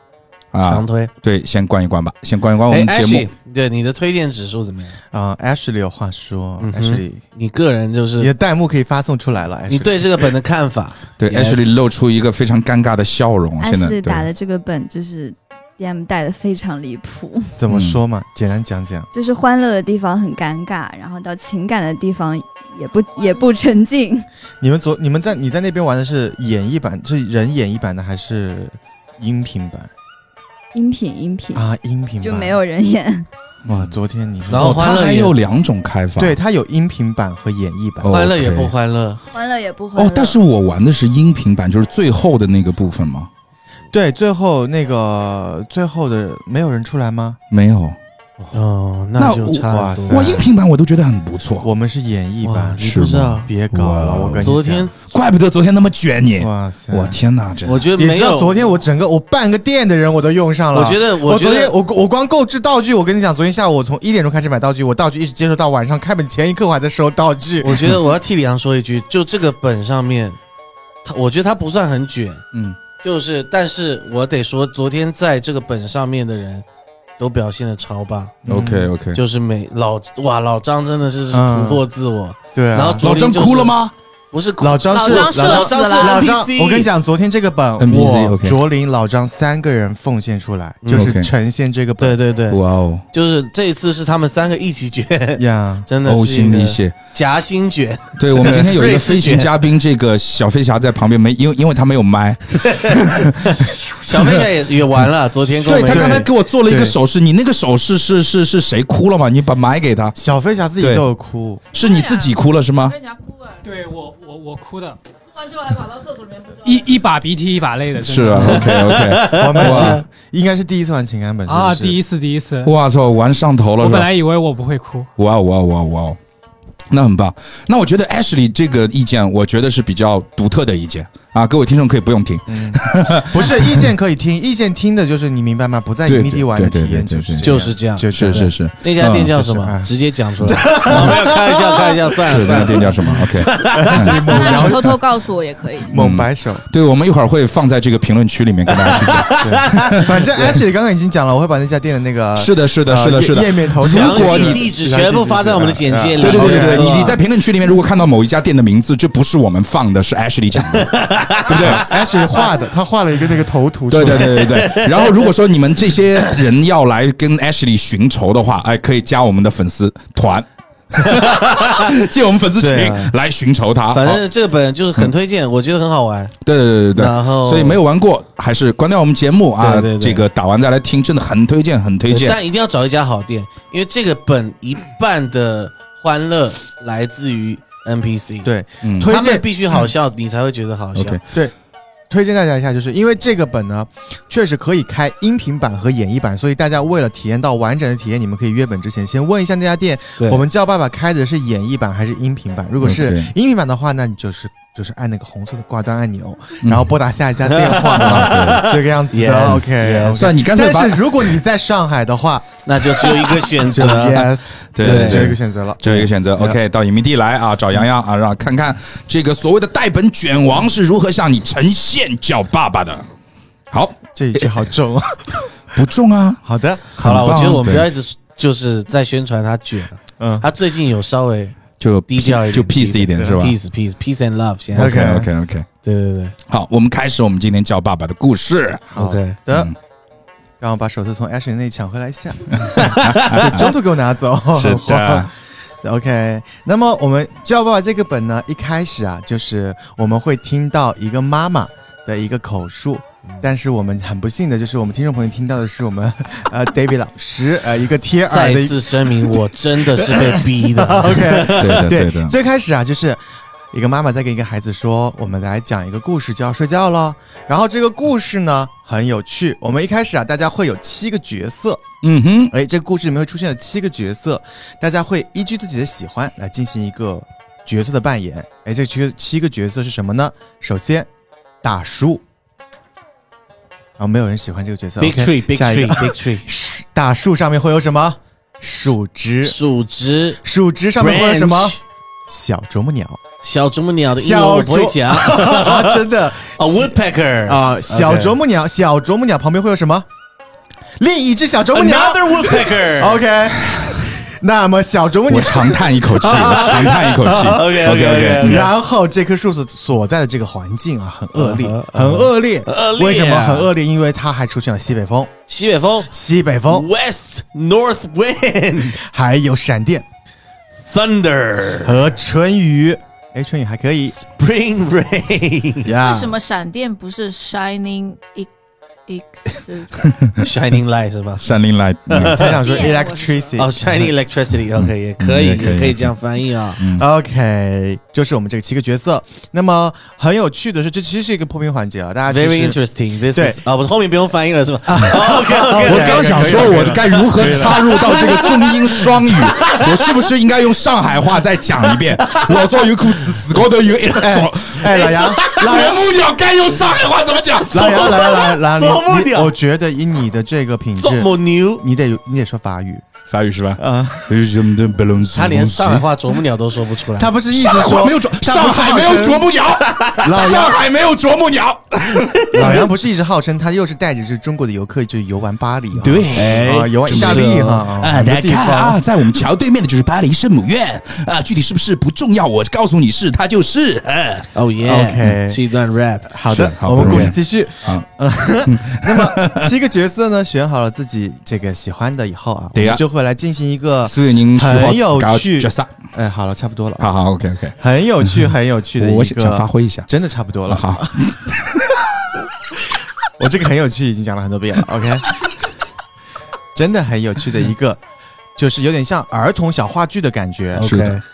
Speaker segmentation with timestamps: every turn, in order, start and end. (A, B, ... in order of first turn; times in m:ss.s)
0:00.5-0:03.3 A
0:00.6-0:01.1 B
0:02.7-0:05.0 B
0:05.1-0:07.2 C
0:06.6-0:08.3 B
0:08.2-0:10.0 C
0:09.7-0:11.7 B
0:11.2-0:14.3 A
0:13.6-0:17.5 D
0:17.6-0:19.1 C
0:17.7-0:18.0 A
0:19.1-0:24.3 D
0:24.6-0:29.9 C
0:30.7-0:31.7 D
0:31.5-0:32.6 C
0:32.2-0:33.3 D
0:33.6-0:33.9 A
0:33.6-0:34.8 C
0:34.5-0:35.4 B
0:34.5-0:36.4 A
0:36.2-0:38.1 C
0:38.0-0:38.7 A
0:38.1-0:39.2 B
0:39.3-0:40.4 D
0:40.0-0:43.3 A
0:43.9-0:47.4 C
0:47.5-0:48.0 A
0:48.5-0:50.4 B
0:49.2-0:51.7 A
0:49.6-0:50.5 C
0:51.6-0:54.9 C
0:52.4-0:53.5 B
0:52.8-0:57.9 A
0:54.4-0:54.9 B
0:56.4-0:57.2 C
0:57.6-0:58.7 B
0:58.0-1:08.0 C
1:00.7-1:01.7 B
1:07.6-1:10.4 B
1:11.0-1:12.4 B
1:12.5-1:12.8 A
1:13.0-1:16.6 B
1:17.2-1:18.4 B
1:18.4-1:18.9 C
1:18.4-1:19.2 A
1:19.1-1:23.8 B
1:21.3-1:21.8 C
1:22.5-1:23.1 C
1:23.0-1:23.9 A
1:24.3-1:26.9 B
1:24.6-1:32.2 C
1:24.9-1:26.3 E
1:27.8-1:28.6 A
1:30.8-1:31.1 B
1:31.0-1:31.3 A
1:32.0-1:32.6 B
1:32.5-1:33.0 A
1:33.1-1:39.7 B
1:35.4-1:35.9 C
1:36.0-1:36.9 A
1:38.2-1:43.3 A
1:42.6-1:46.3 B
1:45.6-1:50.1 A
1:45.9-1:47.0 C
1:50.1-1:51.6 C
1:51.7-1:53.0 A
1:51.7-1:53.6 E
1:53.6-1:55.0 F
1:55.3-1:56.8 E
1:56.6-1:58.8 F
1:58.0-2:00.0 A
1:58.4-2:00.0 B
1:59.2-2:02.0 C
2:01.5-2:02.7 F
2:02.6-2:04.1 A
2:03.8-2:05.1 F
2:05.2-2:06.2 A
2:06.9-2:13.9 A
2:12.5-2:22.0 C
2:16.0-2:19.3 A
2:17.4-2:24.6 B
2:22.2-2:24.7 A
2:22.7-2:25.0 C
2:24.3-2:25.9 E
2:25.9-2:26.6 C
2:25.9-2:30.1 A
2:28.7-2:30.6 B
2:29.3-2:36.9 C
2:32.4-2:34.6 A
2:33.8-2:37.2 B
2:36.2-2:42.0 A
2:40.8-2:42.0 B
2:41.6-2:44.7 C
2:43.9-2:54.2 A
2:44.4-2:45.3 B
2:51.5-2:51.8 B
2:52.6-2:52.9 C
2:52.6-2:53.1 B
2:53.9-2:56.4 B
2:56.4-3:02.4 A
2:56.9-2:57.8 B
2:59.6-3:00.2 B
3:02.1-3:08.5 B
3:08.4-3:09.5 C
3:08.8-3:09.1 A
3:09.0-3:11.2 B
3:10.9-3:11.2 A
3:11.3-3:11.5 C
3:12.1-3:36.6 C
3:20.2-3:20.4 B
3:22.8-3:23.3 A
3:26.6-3:26.9 A
3:27.4-3:30.3 B
3:28.0-3:28.7 A
3:30.2-3:31.3 A
3:32.6-3:35.3 B
3:34.7-3:43.1 A
3:43.7-3:44.5 A
3:44.1-3:45.4 C
3:45.7-3:46.4 A
3:46.4-3:46.8 C
3:46.9-3:55.0 B
3:47.0-3:47.9 A
3:50.2-3:50.5 C
3:51.8-3:53.6 A
3:54.7-3:55.3 C
3:54.7-3:55.7 A
3:55.8-3:56.3 B
3:56.5-3:58.9 A
3:58.9-3:59.7 C
3:59.0-3:59.4 B
3:59.5-3:59.7 A
4:00.6-4:31.8 C
4:02.6-4:03.7 A
4:02.7-4:03.6 B
4:04.5-4:05.3 A
4:18.3-4:21.8 B
4:21.5-4:22.3 A
4:32.0-4:32.5 A
4:32.4-4:41.1 C
4:41.6-4:42.2 C
4:44.0-4:49.6 C
4:45.0-4:46.4 B
4:49.4-4:50.4 B
4:50.4-4:53.2 C
4:51.0-4:51.8 B
4:53.4-4:58.4 B
4:54.2-5:00.1 C
5:01.0-5:07.0 C
5:01.7-5:03.2 B
5:05.3-5:08.7 A
5:06.2-5:08.7 B
5:08.4-5:15.3 C
5:11.4-5:13.7 B
5:15.5-5:16.1 B
5:16.0-5:16.9 C
5:16.7-5:19.0 B
5:19.0-5:20.0 C
5:20.8-5:22.0 B
5:21.8-5:24.2 C
5:24.2-5:25.9 B
5:25.8-5:26.3 C
5:26.0-5:28.5 E
5:29.1-5:30.1 E
5:30.0-5:30.4 A
5:30.4-5:31.4 B
5:31.4-5:32.5 A
5:32.1-5:32.6 B
5:32.2-5:33.8 C
5:32.6-5:33.6 E
5:33.6-5:36.8 B
5:34.8-5:36.1 A
5:36.8-5:37.1 A
5:36.9-5:42.8 C
5:42.3-5:50.2 B
5:43.3-5:43.6 C
5:44.8-5:48.4 C
5:45.7-5:58.5 A
5:51.8-5:52.8 B
5:54.1-5:56.0 C
5:55.5-5:55.8 B
5:57.7-6:03.0 C
5:57.8-5:59.5 B
6:01.0-6:01.8 B
6:03.3-6:06.1 A
6:03.8-6:04.4 C
6:05.3-6:07.4 B
6:07.2-6:09.5 C
6:07.5-6:12.9 A
6:10.2-6:10.8 C
6:12.5-6:19.0 C
6:15.9-6:24.5 A
6:16.3-6:17.8 B
6:24.5-6:26.4 B
6:24.8-6:25.6 C
6:26.3-6:37.1 C
6:26.5-6:28.0 A
6:27.0-6:27.3 B
6:28.6-6:29.6 A
6:32.7-6:33.0 A
6:34.0-6:36.0 A
6:37.0-6:40.1 A
6:37.8-6:41.6 C
6:40.7-6:42.0 A
6:43.4-6:45.4 C
6:46.7-6:48.0 C
6:48.6-6:51.0 C
6:50.7-6:51.2 B
6:50.8-6:51.2 A